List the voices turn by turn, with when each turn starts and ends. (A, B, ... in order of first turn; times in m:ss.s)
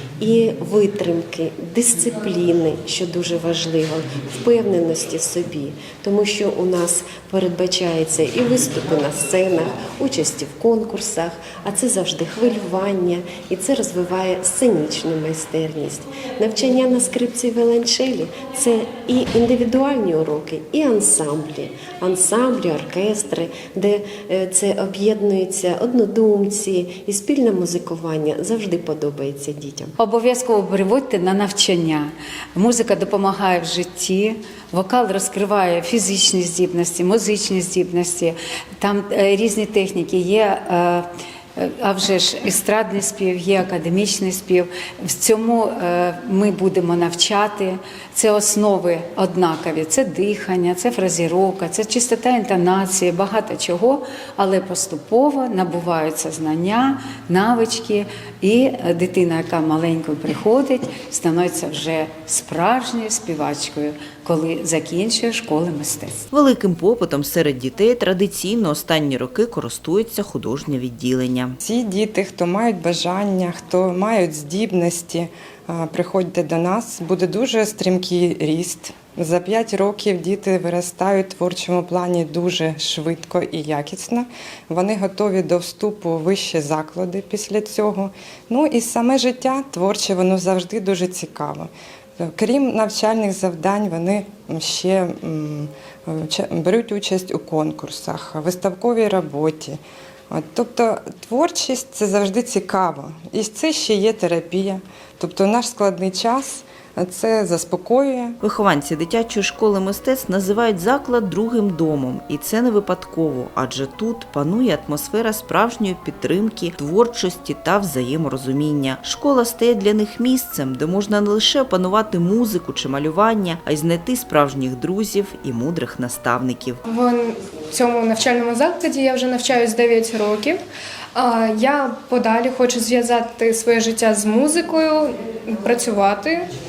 0:00.2-0:29.9 A
0:30.0-1:06.2 B
1:06.3-1:11.6 C
1:11.6-1:48.4 D
1:48.4-2:06.8 C
2:06.9-2:10.6 E
2:11.1-2:16.4 E